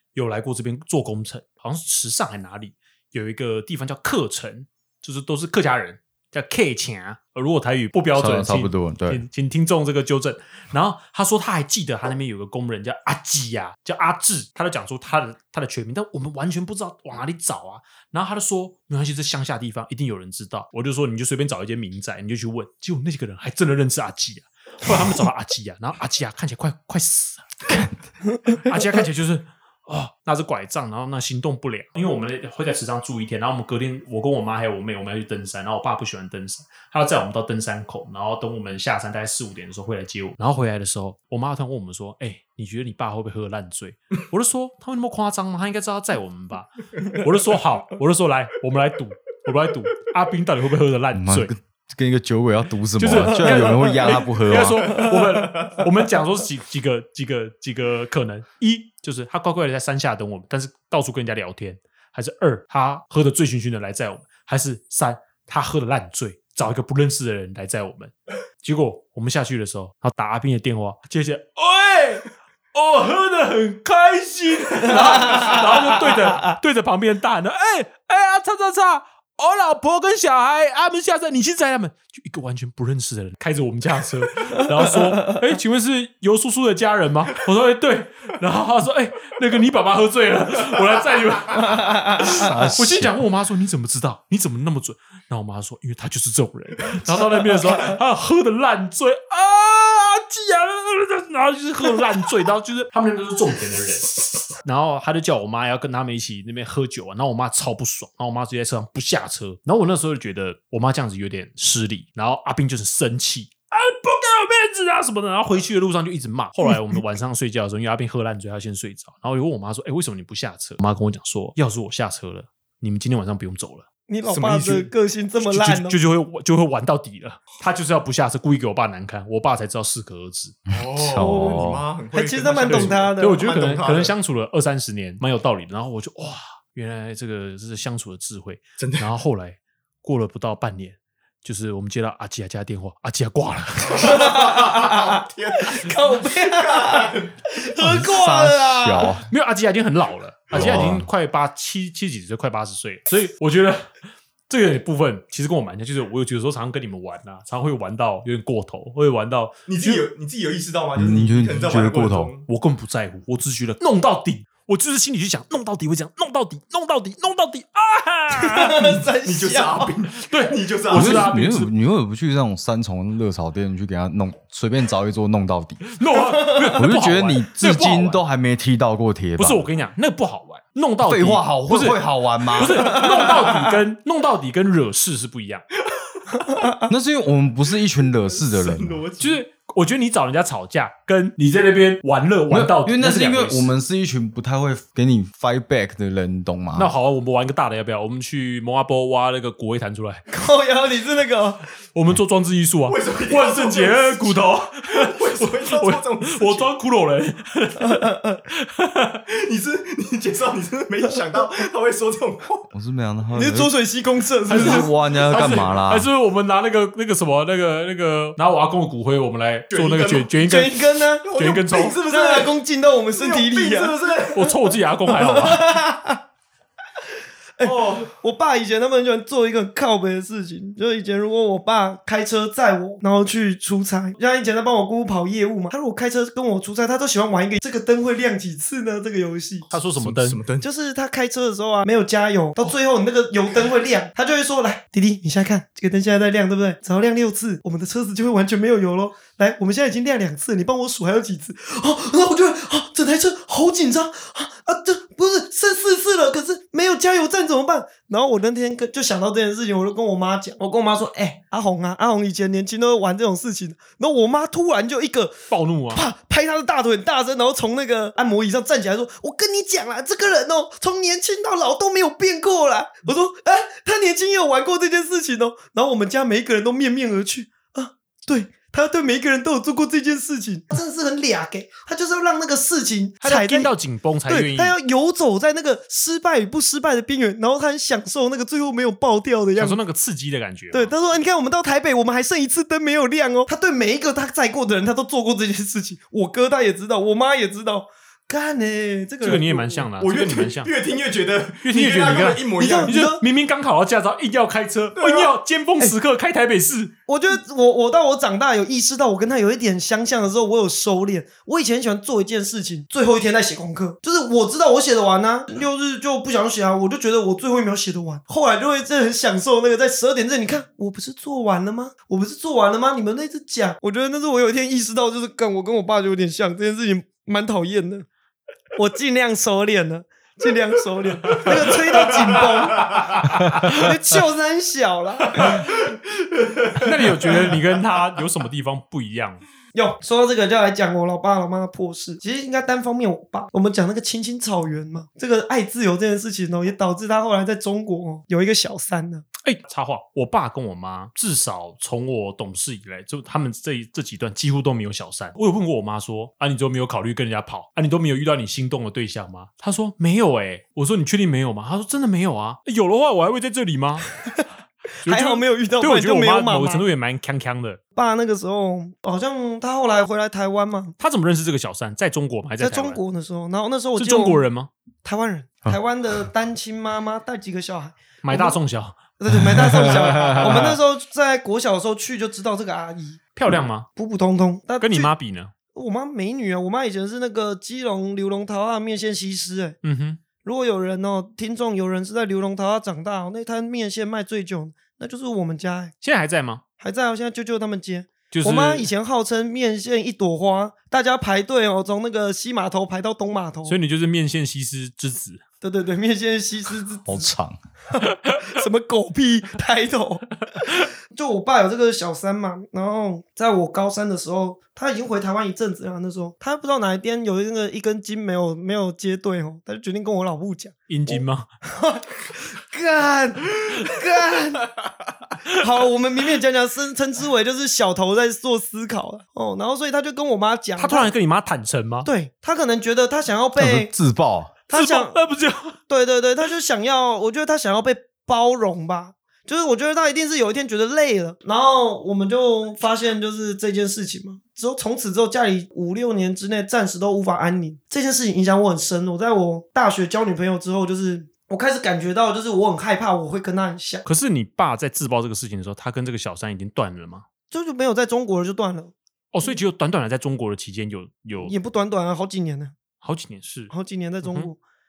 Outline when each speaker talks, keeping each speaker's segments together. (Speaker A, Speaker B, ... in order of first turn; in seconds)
Speaker A: 0.1-27.5, 28.5-51.5, 53.0-124.9, 125.4-130.6, 132.7-144.3, 149.3-153.9, 154.5-160.0, 162.5-169.0, 170.2-171.7, 176.0-178.2, 179.4-185.7, 189.2-193.7, 196.8-200.2, 201.9-209.2, 214.5-220.8, 221.3-222.0, 224.3-225.7, 239.7-240.4, 265.5-266.1, 283.2-284.8, 289.6-290.9, 299.2-300.7, 301.6-306.9, 333.5-333.9, 335.4-335.6, 336.8-339.4, 349.4-364.1, 365.0-367.8, 371.0-373.0, 374.0-374.7, 378.2-379.0, 383.4-383.9, 384.8-385.5, 389.8-390.2, 396.0-396.6, 398.3-398.9, 403.7-405.4, 420.9-421.5, 430.8-432.1, 434.7-435.8, 454.1-457.2, 459.3-461.6, 463.0-463.7, 464.2-464.5
Speaker B: 8.2-9.2, 51.1-55.1, 92.2-93.2, 130.7-131.8, 147.8-149.3, 150.5-151.1, 161.0-162.3, 170.9-175.9, 176.7-179.6, 181.0-183.3, 186.9-189.0, 192.5-196.9, 212.7-213.7, 214.5-216.1, 379.5-380.8, 407.1-407.6, 433.6-434.5
Speaker C: 75.2-75.5, 91.8-92.5, 124.1-126.0, 131.2-133.5, 144.0-149.2, 168.3-169.9, 176.5-176.7, 186.5-186.8, 200.3-201.6, 207.9-208.4, 213.3-214.9, 220.4-221.3, 222.0-224.0, 225.1-226.2, 227.6-239.7, 240.6-283.7, 284.3-289.8, 290.7-299.9, 302.6-303.2, 307.1-328.1, 328.8-335.8, 339.7-349.2, 365.1-366.9, 368.0-371.0, 372.6-374.4, 375.0-378.6, 379.2-383.2, 384.0-385.1, 385.7-389.8, 390.4-395.9, 396.8-403.8, 405.6-407.3, 407.9-424.8, 425.4-431.1, 432.1-433.9, 434.7-435.3, 435.9-454.1, 457.5-459.6, 461.4-462.8, 463.7-464.6
Speaker D: 124.3-124.8, 130.7-134.1, 138.8-139.1, 143.9-147.3, 159.7-162.5, 169.2-171.3, 188.0-189.4, 202.9-206.7, 209.3-212.7, 219.7-220.3, 221.2-222.5, 223.1-224.5, 227.6-228.1, 240.0-240.7, 300.0-303.0, 305.0-305.3, 331.5-333.1, 335.4-337.4